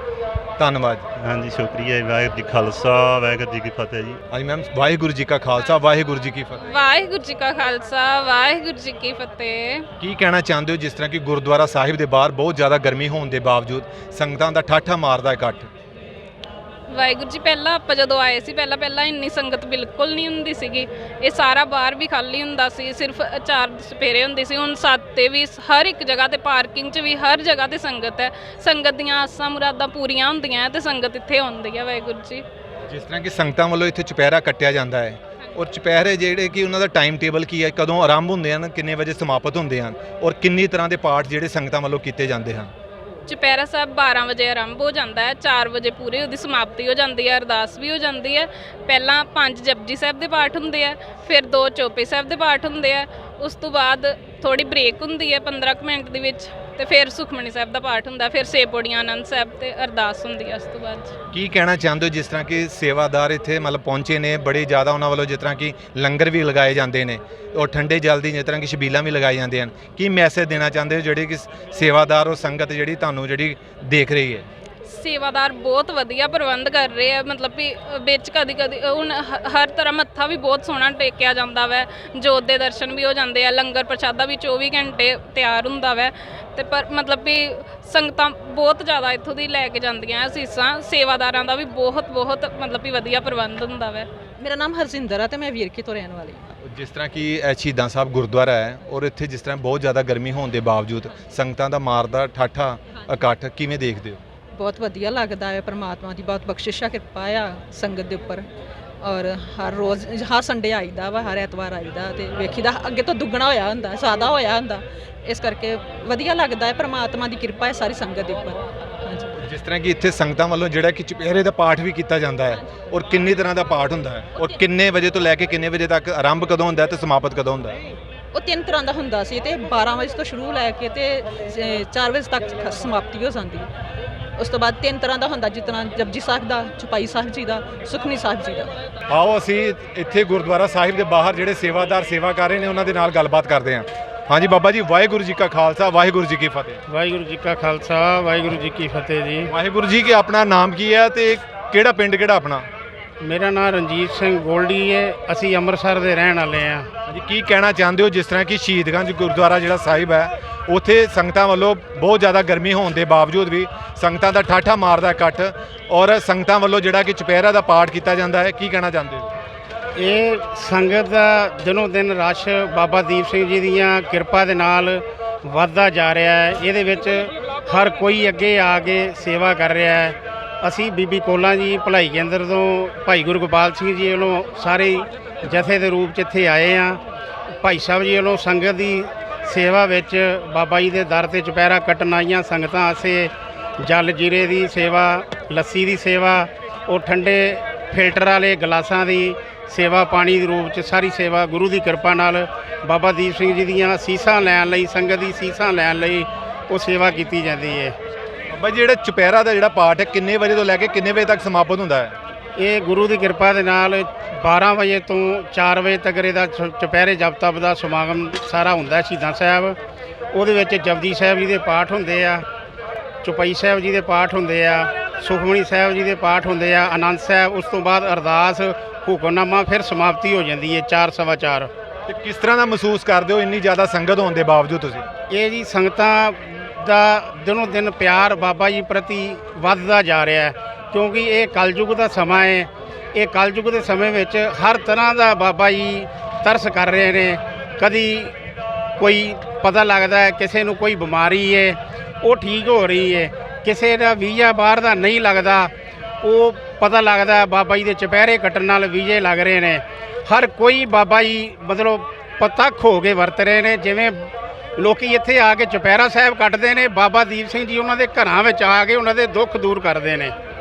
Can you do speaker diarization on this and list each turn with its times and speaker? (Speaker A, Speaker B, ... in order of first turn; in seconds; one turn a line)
Speaker A: 0.6-1.1
Speaker B: 1.2-4.2
Speaker A: 4.3-6.6
Speaker C: 6.6-9.9
Speaker A: 10.0-15.7
Speaker C: 16.9-32.4
Speaker A: 32.9-42.7
Speaker C: 43.3-61.1
Speaker A: 61.3-74.5
Speaker C: 74.8-94.1
Speaker D: 94.4-96.5
Speaker A: 96.6-104.2
Speaker D: 104.5-108.5
Speaker D: 109.0-119.4
Speaker A: 119.4-127.8
Speaker D: 128.3-133.7
Speaker D: 134.4-138.7
Speaker A: 139.1-146.8
Speaker E: 146.9-149.5
Speaker A: 149.5-152.7
Speaker E: 153.2-156.9
Speaker A: 157.1-169.3
Speaker E: 169.9-187.0
Speaker E: 187.6-207.9
Speaker A: 208.5-212.1
Speaker E: 212.6-219.8
Speaker E: 220.3-222.4
Speaker E: 223.2-231.7
Speaker A: 232.1-235.1
Speaker E: 235.3-248.3
Speaker E: 249.0-270.3